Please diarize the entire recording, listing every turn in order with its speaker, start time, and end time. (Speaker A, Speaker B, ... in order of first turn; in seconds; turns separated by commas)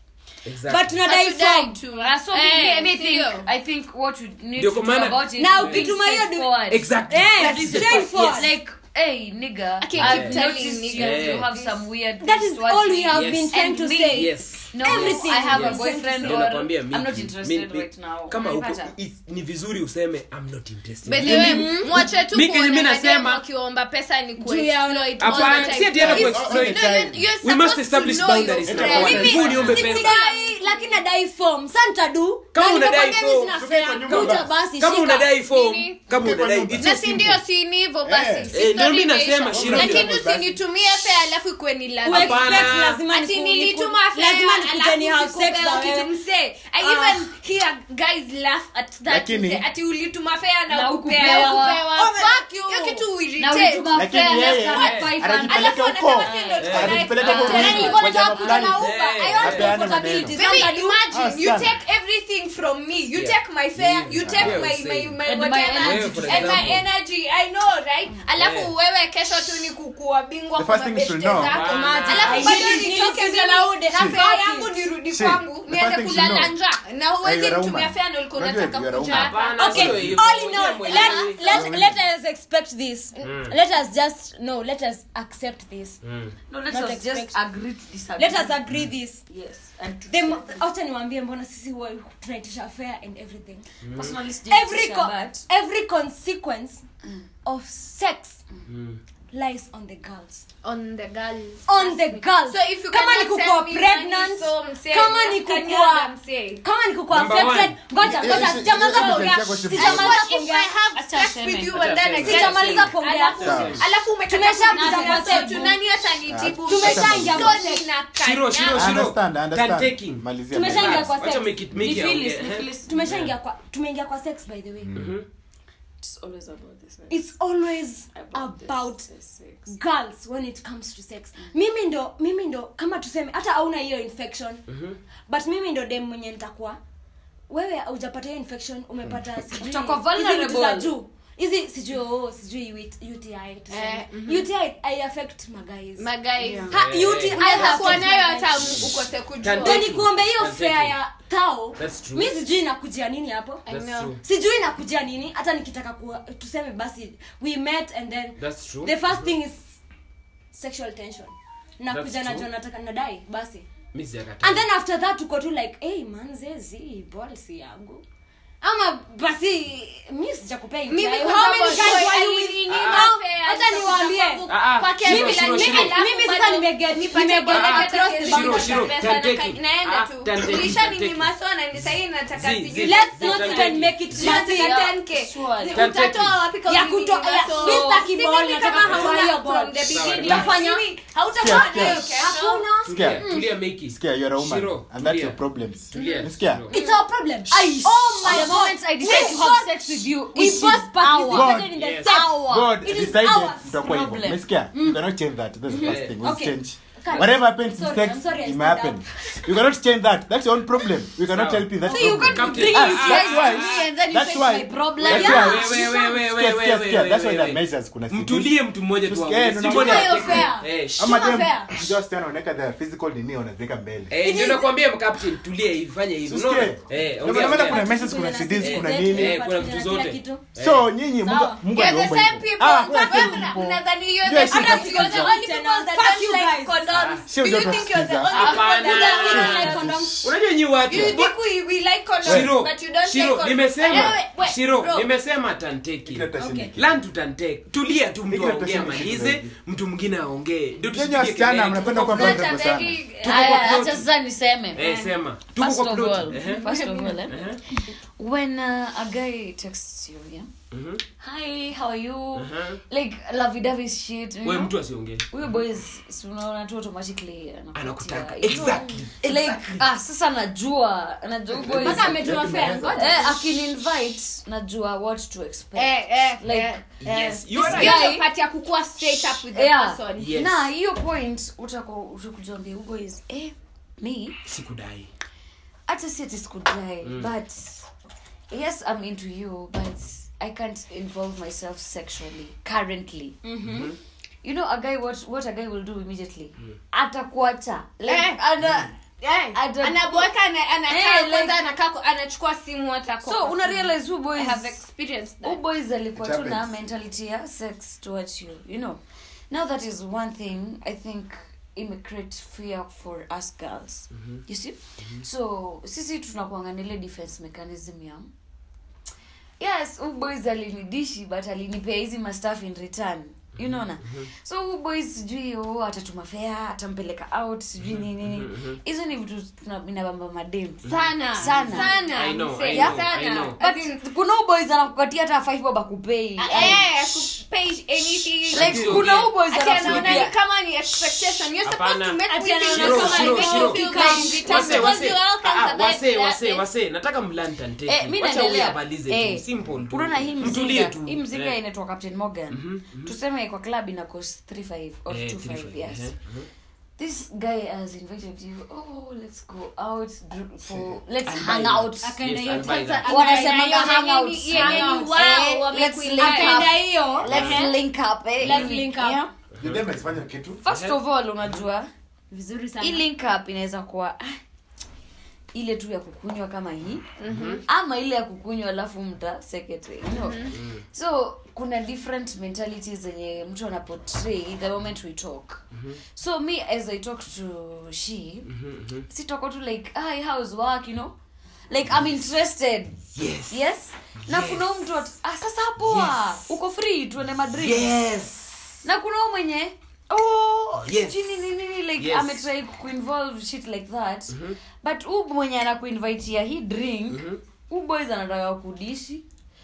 Speaker A: 0.4-1.1, Speaker B: 0.6-1.8, Speaker C: 1.0-3.5, Speaker D: 2.2-18.9, Speaker A: 4.5-6.0, Speaker B: 5.3-8.6, Speaker A: 6.6-8.3, Speaker C: 9.8-11.8, Speaker A: 10.0-11.5, Speaker B: 12.2-16.5, Speaker A: 13.1-23.4, Speaker C: 21.0-31.0, Speaker B: 21.2-21.9, Speaker B: 24.4-26.1, Speaker A: 25.2-30.2, Speaker E: 25.9-27.2, Speaker E: 28.6-29.9, Speaker B: 28.7-35.4, Speaker D: 29.1-29.6, Speaker A: 32.5-37.3, Speaker E: 33.5-34.5, Speaker C: 35.4-36.1, Speaker E: 36.1-37.4, Speaker C: 36.7-79.8, Speaker E: 38.0-38.6, Speaker A: 38.5-40.2, Speaker E: 39.5-41.0, Speaker B: 42.0-46.1, Speaker A: 42.1-43.0, Speaker B: 46.9-47.3, Speaker E: 49.0-49.6, Speaker D: 50.7-58.9, Speaker E: 53.9-60.5, Speaker A: 54.7-55.1, Speaker B: 55.4-56.6, Speaker A: 56.5-57.9, Speaker B: 57.2-61.4, Speaker A: 58.7-59.8, Speaker E: 61.1-61.7, Speaker A: 63.1-65.2, Speaker E: 64.0-64.6, Speaker D: 65.2-66.8, Speaker A: 65.8-66.8, Speaker A: 68.4-68.7, Speaker E: 70.5-71.6, Speaker A: 71.4-72.5, Speaker B: 71.5-74.9, Speaker D: 71.7-73.0, Speaker E: 73.9-74.2, Speaker E: 75.1-76.5, Speaker E: 77.2-80.2, Speaker A: 79.1-81.6, Speaker B: 79.4-86.0, Speaker C: 80.7-81.3, Speaker E: 81.5-82.0, Speaker A: 83.2-83.5, Speaker A: 86.0-86.3, Speaker D: 86.5-90.6, Speaker B: 86.7-87.4, Speaker B: 88.2-89.2, Speaker B: 90.1-93.6, Speaker A: 93.8-94.2, Speaker D: 93.9-95.5, Speaker B: 94.5-96.8, Speaker B: 97.4-98.4, Speaker A: 98.7-99.0, Speaker B: 99.3-100.4, Speaker C: 100.6-106.6, Speaker B: 101.7-110.8, Speaker A: 107.1-107.9, Speaker E: 108.0-110.3, Speaker C: 108.5-119.0, Speaker D: 110.9-112.5, Speaker A: 111.7-113.8, Speaker B: 112.2-115.8, Speaker E: 113.4-113.8, Speaker D: 114.8-115.7, Speaker E: 116.3-117.6, Speaker B: 116.6-117.9, Speaker A: 118.1-123.4, Speaker E: 118.7-121.2, Speaker B: 120.5-121.7, Speaker D: 121.8-123.2, Speaker B: 122.8-125.1, Speaker E: 124.8-125.1, Speaker A: 125.0-125.2, Speaker D: 126.0-127.3, Speaker B: 127.1-129.1, Speaker D: 128.1-129.8, Speaker B: 129.7-134.6, Speaker A: 134.7-135.0, Speaker B: 135.3-136.8, Speaker B: 137.5-149.0, Speaker D: 139.5-140.9, Speaker C: 143.7-144.5, Speaker C: 146.0-150.0, Speaker A: 146.7-148.2, Speaker A: 149.4-151.0, Speaker B: 149.5-153.7, Speaker A: 151.8-152.3, Speaker C: 153.7-154.2, Speaker A: 153.7-154.2, Speaker B: 154.2-159.8, Speaker A: 158.4-159.3, Speaker B: 160.5-163.7, Speaker A: 161.9-162.5, Speaker A: 163.9-164.7, Speaker B: 164.4-168.0, Speaker B: 168.6-179.0, Speaker C: 170.8-192.8, Speaker A: 171.6-172.1, Speaker A: 172.7-173.1, Speaker A: 174.5-176.1, Speaker A: 177.5-184.5, Speaker B: 182.8-185.1, Speaker D: 184.2-185.9, Speaker A: 185.7-186.5, Speaker B: 186.6-193.5, Speaker D: 187.6-188.1, Speaker A: 188.7-189.1, Speaker A: 189.9-190.8, Speaker E: 191.3-192.1, Speaker A: 192.8-195.4, Speaker E: 192.9-193.2, Speaker E: 193.8-196.7, Speaker A: 195.9-196.9, Speaker C: 196.0-196.3, Speaker B: 196.7-204.0, Speaker D: 197.8-202.8, Speaker E: 201.3-224.1, Speaker A: 201.7-202.2, Speaker D: 203.8-204.4, Speaker B: 204.7-205.0, Speaker B: 205.7-209.1, Speaker A: 205.8-206.2, Speaker A: 211.2-213.8, Speaker B: 211.8-213.0, Speaker D: 211.8-215.6, Speaker B: 215.0-216.1, Speaker A: 215.1-221.8, Speaker B: 219.6-221.7, Speaker C: 219.7-220.5, Speaker A: 224.1-227.9, Speaker B: 224.2-225.3, Speaker E: 226.2-229.4, Speaker B: 227.2-230.5, Speaker A: 228.6-230.9, Speaker E: 230.6-235.4, Speaker B: 231.2-231.8, Speaker C: 231.7-239.5, Speaker A: 232.6-233.2, Speaker B: 232.9-233.4, Speaker B: 234.2-237.1, Speaker A: 236.9-237.3, Speaker E: 237.3-238.4, Speaker B: 238.3-240.3, Speaker A: 238.3-241.3, Speaker E: 239.2-240.3, Speaker E: 240.9-241.2, Speaker C: 240.9-245.1, Speaker E: 242.2-242.5, Speaker A: 242.2-254.1, Speaker E: 246.1-247.0, Speaker B: 246.3-246.7, Speaker E: 248.3-249.5, Speaker E: 250.9-253.0, Speaker C: 251.8-253.8, Speaker D: 253.2-257.6, Speaker A: 254.7-256.7, Speaker C: 256.6-257.2, Speaker A: 257.3-257.6, Speaker D: 258.2-260.5, Speaker A: 260.7-261.0, Speaker D: 261.2-264.8, Speaker A: 262.3-262.8, Speaker A: 264.4-265.6, Speaker D: 265.3-276.9, Speaker A: 267.7-269.8, Speaker A: 271.6-272.9, Speaker B: 271.7-273.4, Speaker E: 272.1-273.0, Speaker C: 275.8-280.4, Speaker A: 277.0-278.1, Speaker D: 277.5-278.3, Speaker D: 279.5-284.4, Speaker A: 280.1-280.7, Speaker A: 284.4-285.1, Speaker D: 285.9-287.8, Speaker A: 287.0-287.3, Speaker D: 288.5-293.4, Speaker B: 293.4-293.9, Speaker A: 293.6-294.0, Speaker D: 294.4-298.9, Speaker C: 298.0-298.4, Speaker C: 299.1-305.6, Speaker D: 299.5-300.3, Speaker D: 300.9-301.7, Speaker D: 303.2-304.8, Speaker D: 305.4-318.3, Speaker E: 306.2-306.7, Speaker A: 314.1-314.4, Speaker D: 319.6-332.1, Speaker A: 323.6-324.3, Speaker A: 327.9-328.8, Speaker C: 330.8-334.0, Speaker A: 330.9-331.2, Speaker A: 331.9-333.6, Speaker D: 332.6-337.2, Speaker C: 336.4-346.6, Speaker D: 338.5-340.3, Speaker A: 338.5-340.2, Speaker A: 341.6-351.6, Speaker B: 342.2-344.8, Speaker D: 343.0-345.0, Speaker D: 347.9-356.1, Speaker A: 352.5-353.1, Speaker A: 355.1-356.5, Speaker D: 357.0-362.3, Speaker E: 360.7-361.0, Speaker A: 361.2-363.2, Speaker B: 362.0-363.6, Speaker C: 362.5-367.6, Speaker D: 363.0-369.3, Speaker A: 364.5-364.8, Speaker B: 364.6-365.4, Speaker B: 366.1-367.3, Speaker A: 367.2-367.7, Speaker B: 368.4-369.2, Speaker A: 369.6-370.0, Speaker E: 369.6-370.6, Speaker D: 370.6-371.9, Speaker A: 370.6-371.6, Speaker B: 372.3-373.1, Speaker D: 372.8-374.4, Speaker D: 375.5-377.1, Speaker C: 377.2-377.6, Speaker A: 377.2-377.6, Speaker D: 377.6-385.6, Speaker C: 380.1-380.5, Speaker A: 380.5-380.8, Speaker D: 386.1-388.5, Speaker A: 388.5-389.0, Speaker D: 389.1-391.1, Speaker D: 391.7-398.1, Speaker A: 393.1-393.6, Speaker A: 394.2-394.8, Speaker A: 395.8-396.5, Speaker A: 397.5-398.8, Speaker D: 398.8-409.2, Speaker A: 400.8-402.4, Speaker A: 404.3-404.6, Speaker A: 407.1-407.4